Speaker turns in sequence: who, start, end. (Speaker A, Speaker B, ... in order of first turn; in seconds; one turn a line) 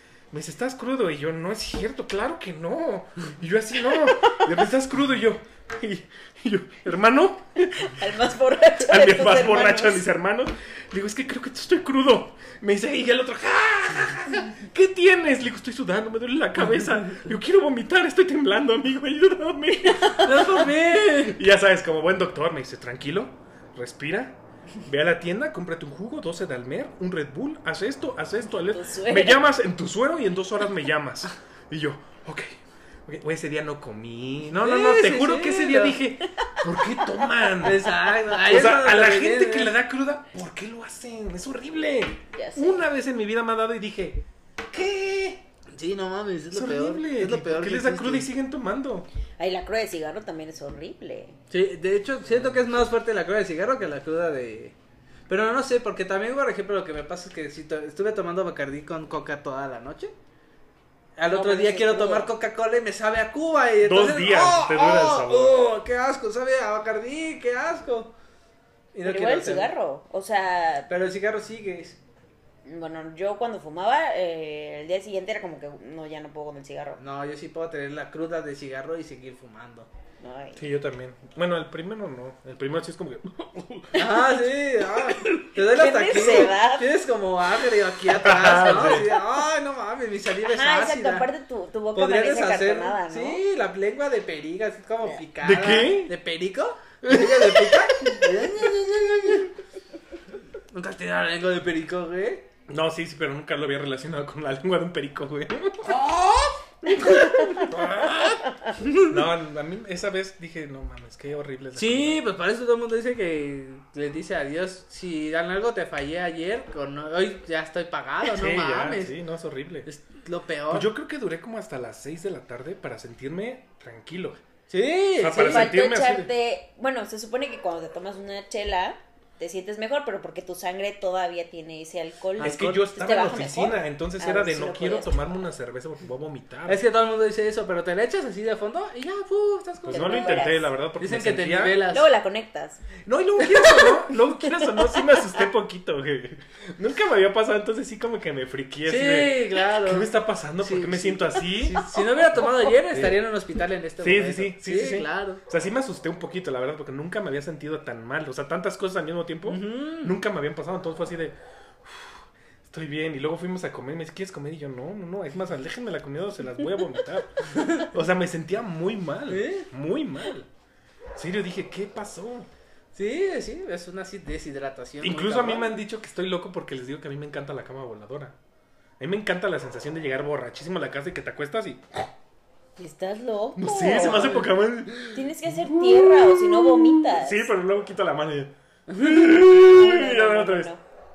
Speaker A: 0.3-8.1
Speaker B: 7.7-10.1
Speaker A: 8.8-37.9
Speaker B: 19.8-20.5
Speaker C: 20.2-21.4
Speaker B: 28.7-29.4
Speaker C: 34.5-36.0
Speaker C: 37.6-39.8
Speaker A: 38.4-45.4
Speaker B: 42.3-42.9
Speaker C: 45.7-48.3
Speaker A: 46.5-49.1
Speaker B: 49.4-51.3
Speaker C: 51.5-54.8
Speaker A: 52.3-52.7
Speaker C: 55.3-60.1
Speaker C: 61.2-68.1
Speaker B: 61.3-62.3
Speaker A: 63.8-65.6
Speaker C: 68.9-69.7
Speaker B: 69.0-70.9
Speaker C: 70.9-72.0
Speaker B: 72.7-77.0
Speaker C: 77.0-79.9
Speaker B: 80.2-80.6
Speaker A: 80.6-84.0
Speaker B: 83.9-84.2
Speaker C: 83.9-91.3
Speaker B: 85.2-86.9
Speaker A: 88.1-89.1
Speaker B: 90.5-93.4
Speaker C: 91.9-99.5
Speaker A: 95.4-96.1
Speaker A: 97.0-99.4
Speaker C: 100.7-102.4
Speaker A: 102.7-106.0
Speaker C: 105.9-106.6
Speaker A: 106.8-108.5
Speaker C: 107.2-109.2
Speaker A: 109.0-112.2
Speaker C: 111.8-119.1
Speaker A: 118.3-119.9
Speaker C: 119.9-120.9
Speaker A: 120.7-124.4
Speaker C: 124.7-125.7
Speaker A: 125.2-126.3
Speaker B: 125.3-135.2
Speaker C: 132.4-132.8
Speaker A: 132.4-136.8
Speaker C: 136.7-140.4
Speaker A: 139.8-141.8
Speaker B: 139.9-140.7
Speaker C: 141.0-142.1
Speaker B: 141.9-142.8
Speaker A: 143.1-153.2
Speaker B: 143.4-145.4
Speaker C: 148.9-150.1
Speaker C: 150.6-155.4
Speaker A: 154.0-170.5
Speaker C: 159.5-160.1
Speaker C: 167.6-167.9
Speaker C: 169.3-169.7
Speaker A: 171.2-172.5
Speaker C: 172.9-175.8
Speaker A: 175.0-178.4
Speaker A: 179.0-182.1
Speaker B: 182.8-184.5
Speaker A: 183.6-190.7
Speaker B: 185.1-187.5
Speaker B: 189.3-190.8